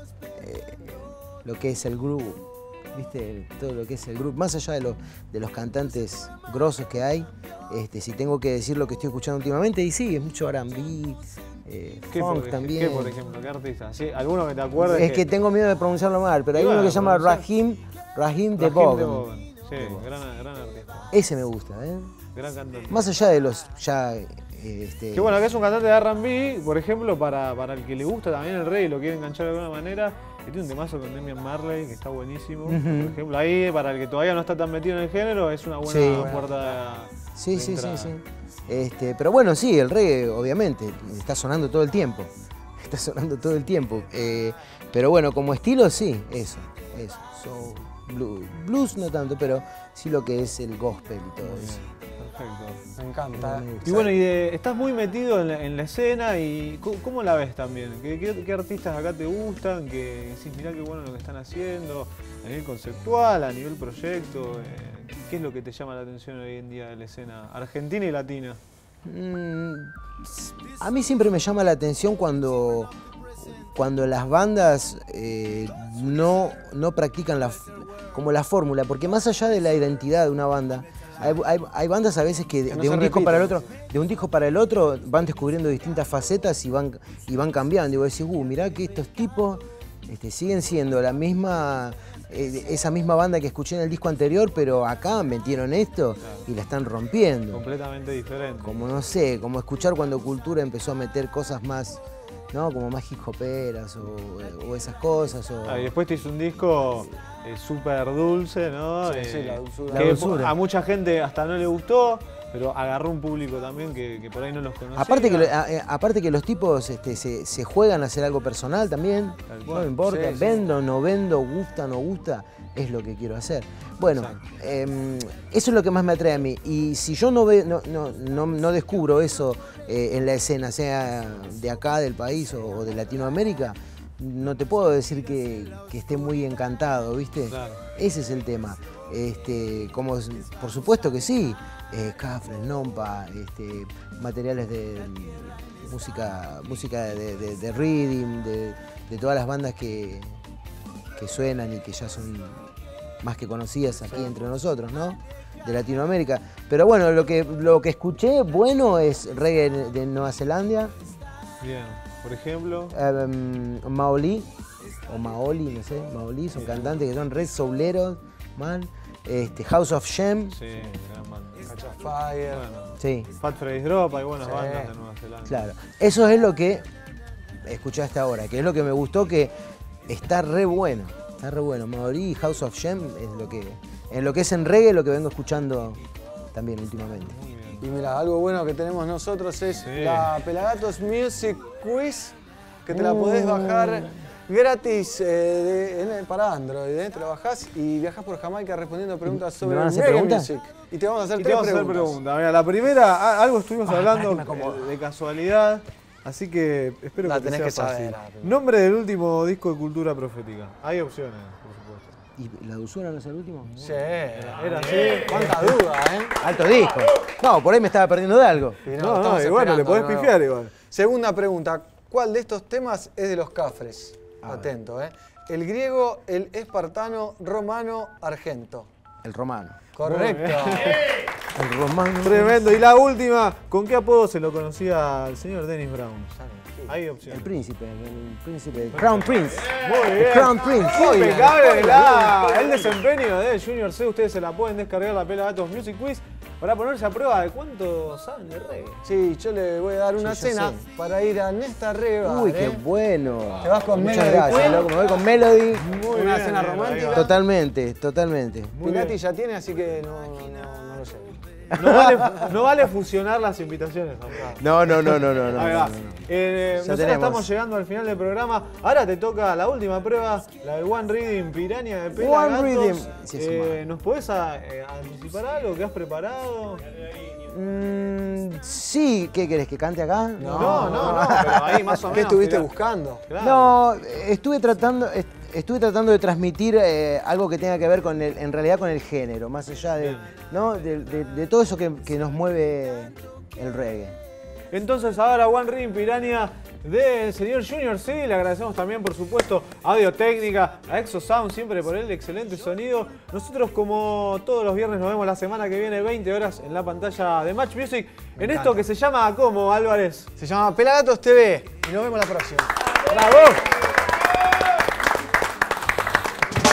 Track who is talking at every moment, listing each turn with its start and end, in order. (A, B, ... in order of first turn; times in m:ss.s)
0:00.4-0:13.2 A
0:12.1-0:15.2 B
0:14.7-0:20.0 A
0:16.5-0:17.4 B
0:18.6-0:21.1 B
0:21.1-0:22.1 A
0:22.3-0:23.0 B
0:22.9-0:25.4 A
0:25.1-0:38.1 B
0:32.6-0:33.2 A
0:35.8-0:36.4 A
0:36.0-0:36.8 C
0:37.4-0:51.8 A
0:51.4-0:52.8 B
0:53.0-0:53.7 C
0:53.4-0:54.2 A
0:53.8-1:08.6 B
1:09.0-1:37.6 A
1:22.7-1:23.7 C
1:37.5-1:39.0 B
1:38.6-1:42.0 A
1:42.5-1:45.9 A
1:45.6-1:55.5 B
1:49.0-1:50.2 C
1:49.9-1:50.6 A
1:54.9-2:30.4 A
1:59.5-1:59.9 B
2:00.0-2:00.6 C
2:17.5-2:17.8 B
2:31.2-2:32.7 A
2:33.2-2:40.9 A
2:41.6-2:43.0 B
2:42.9-2:44.5 A
2:45.1-2:50.6 A
2:46.6-2:46.9 B
2:50.5-2:51.8 B
2:51.7-2:52.6 C
2:52.5-2:55.7 B
2:53.0-2:53.3 A
2:54.4-2:54.9 C
2:55.4-2:56.9 A
2:57.6-2:59.5 A
3:00.1-3:06.0 A
3:06.5-3:07.4 A
3:07.2-3:07.9 B
3:07.8-3:22.2 C
3:09.8-3:10.3 B
3:12.9-3:14.1 A
3:19.2-3:20.5 A
3:21.4-3:32.1 B
3:23.8-3:24.9 C
3:27.2-3:28.6 C
3:32.4-3:33.7 A
3:33.7-3:35.8 B
3:33.8-3:36.3 C
3:36.4-3:38.8 A
3:38.8-3:48.9 C
3:38.9-3:40.7 B
3:44.4-3:44.7 A
3:49.2-3:49.8 A
3:49.9-3:51.0 C
3:50.0-3:51.1 B
3:51.5-3:52.6 A
3:52.2-3:56.3 B
3:56.3-3:56.9 C
3:56.9-3:57.5 B
3:57.3-4:02.2 A
3:58.9-4:09.0 B
4:00.8-4:02.9 C
4:09.0-4:12.8 C
4:10.2-4:10.8 A
4:12.2-4:15.8 A
4:13.6-4:15.0 C
4:14.2-4:14.9 B
4:15.8-4:17.3 B
4:15.8-4:17.3 C
4:17.1-4:18.8 A
4:18.7-4:19.2 B
4:18.8-4:21.4 C
4:21.7-4:22.5 A
4:21.7-4:36.8 B
4:24.6-4:27.4 A
4:32.1-4:33.8 A
4:37.4-4:42.2 A
4:40.4-4:41.5 C
4:40.5-4:42.7 B
4:42.1-4:43.2 C
4:43.2-4:43.8 B
4:43.4-4:54.2 A
4:50.0-4:50.3 B
4:54.7-5:10.3 B
5:08.4-5:08.8 C
5:10.4-5:12.7 C
5:13.1-5:13.6 B